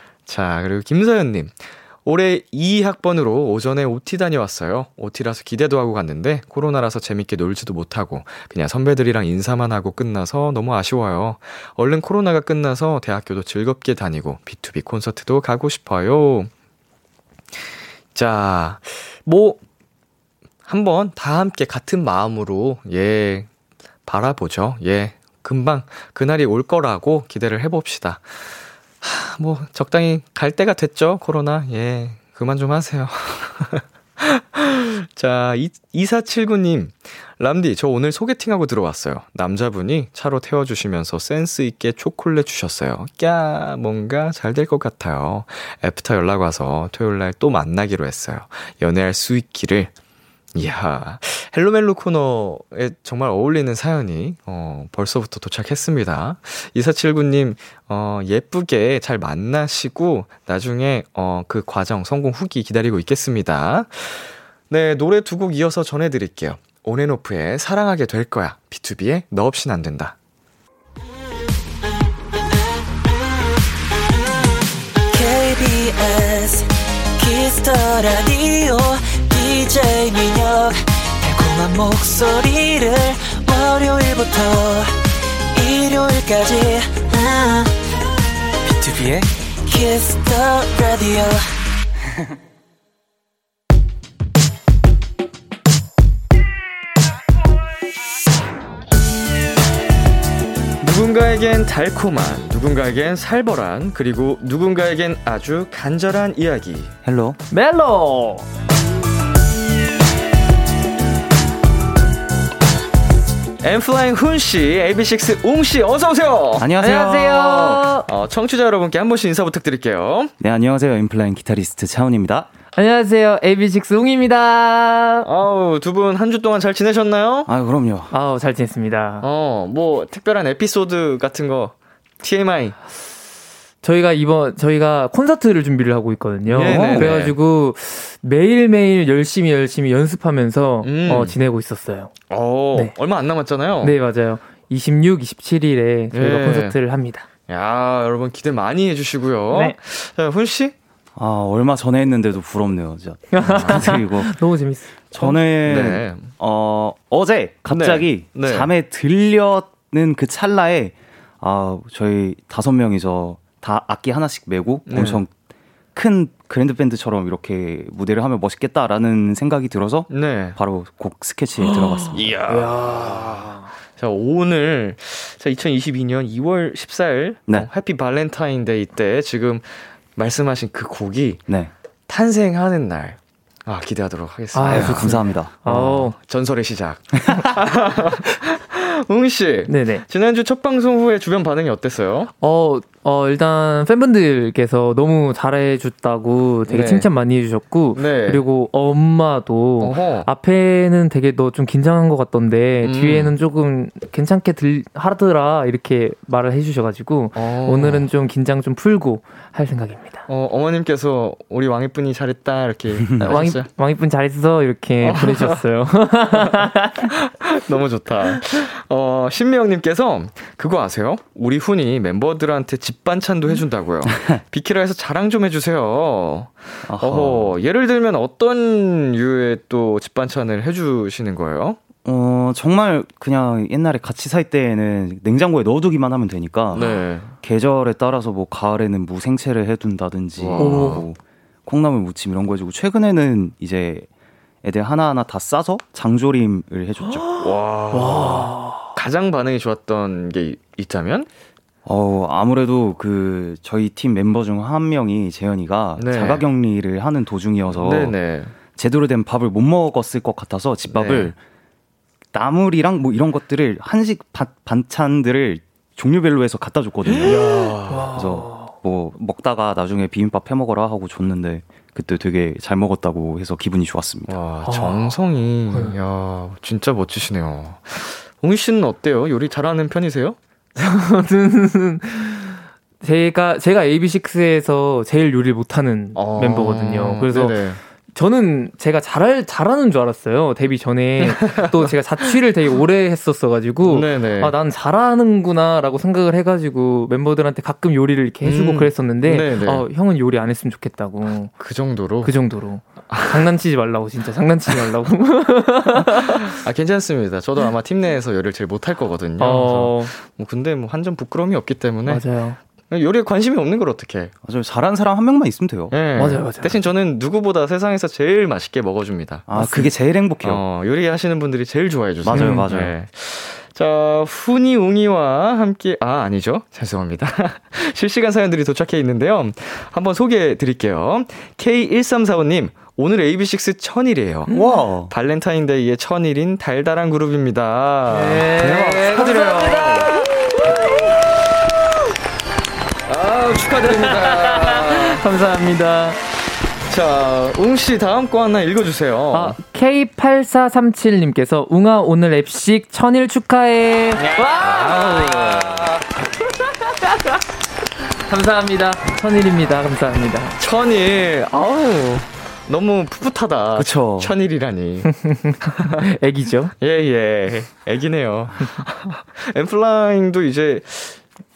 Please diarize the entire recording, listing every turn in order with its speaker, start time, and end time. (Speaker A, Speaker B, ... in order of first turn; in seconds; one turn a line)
Speaker A: 0.3-16.5
Speaker A: 18.1-19.6
Speaker A: 20.6-23.5
Speaker A: 24.1-28.4
Speaker A: 29.0-49.9
Speaker A: 50.5-70.2
Speaker B: 75.1-84.9
Speaker B: 85.5-87.7
Speaker B: 88.7-91.5
Speaker A: 100.8-106.9
Speaker C: 107.0-107.4
Speaker D: 107.5-108.5
Speaker A: 113.6-120.3
Speaker C: 116.6-117.5
Speaker D: 116.8-118.1
Speaker C: 120.4-122.5
Speaker D: 122.8-125.3
Speaker A: 125.2-127.5
Speaker C: 127.5-128.1
Speaker D: 128.1-129.2
Speaker A: 129.2-132.8
Speaker D: 133.8-142.1
Speaker A: 136.5-137.3
Speaker C: 136.6-137.1
Speaker A: 140.8-141.4
Speaker A: 142.3-144.0
Speaker D: 143.8-147.2
Speaker A: 146.1-146.8
Speaker A: 147.5-150.8
Speaker C: 151.2-154.4
Speaker D: 153.3-155.4
Speaker C: 155.1-165.3
Speaker A: 155.7-156.3
Speaker A: 157.7-158.7
Speaker A: 164.9-165.2
Speaker C: 165.9-172.4
Speaker A: 170.1-170.6
Speaker A: 172.1-181.4
Speaker D: 172.5-173.7
Speaker A: 182.1-192.3
Speaker D: 184.5-186.2
Speaker C: 184.7-185.6
Speaker D: 189.7-190.1
Speaker D: 192.4-210.2
Speaker A: 196.7-197.1
Speaker A: 197.9-198.4
Speaker A: 199.8-200.3
Speaker A: 202.8-203.3
Speaker A: 207.3-208.1
Speaker A: 210.3-213.7
Speaker D: 213.3-217.1
Speaker A: 215.0-215.6
Speaker A: 216.4-231.8
Speaker C: 224.1-224.4
Speaker C: 226.8-227.6
Speaker C: 232.1-244.1
Speaker A: 236.7-237.3
Speaker A: 240.4-241.1
Speaker D: 240.6-241.0
Speaker C: 244.6-247.3
Speaker D: 247.3-248.9
Speaker A: 247.4-251.3
Speaker C: 251.8-258.1
Speaker A: 256.0-256.5
Speaker A: 257.8-258.5
Speaker C: 258.8-261.4
Speaker A: 260.9-261.3
Speaker C: 262.3-274.4
Speaker A: 267.2-268.1
Speaker D: 267.9-268.7
Speaker A: 274.3-280.4
Speaker D: 274.6-275.2
Speaker D: 280.8-287.6
Speaker A: 286.1-287.8
Speaker D: 288.1-301.5
Speaker A: 291.2-291.9
Speaker A: 293.8-294.6
Speaker A: 298.4-299.9
Speaker A: 301.6-302.3
Speaker D: 302.2-306.5
Speaker A: 303.1-303.5
Speaker A: 306.1-312.3
Speaker D: 309.4-310.1
Speaker D: 312.1-312.6
Speaker A: 312.9-314.3
Speaker C: 314.4-315.9
Speaker A: 315.9-319.6
Speaker D: 316.1-316.8
Speaker C: 319.5-320.6
Speaker D: 319.6-319.9
Speaker A: 320.4-334.5
Speaker C: 322.2-322.9
Speaker D: 322.3-322.7
Speaker D: 334.5-334.8
Speaker C: 334.5-335.1
Speaker A: 335.1-340.1
Speaker D: 338.1-340.8
Speaker C: 339.0-340.1
Speaker A: 343.1-345.2
Speaker D: 343.9-346.2
Speaker A: 346.9-349.6
Speaker D: 349.3-356.0
Speaker A: 354.2-356.0
Speaker D: 356.7-357.1
Speaker D: 358.3-360.6
Speaker A: 360.6-365.2
Speaker C: 363.8-364.4
Speaker D: 365.1-366.7
Speaker A: 366.8-371.2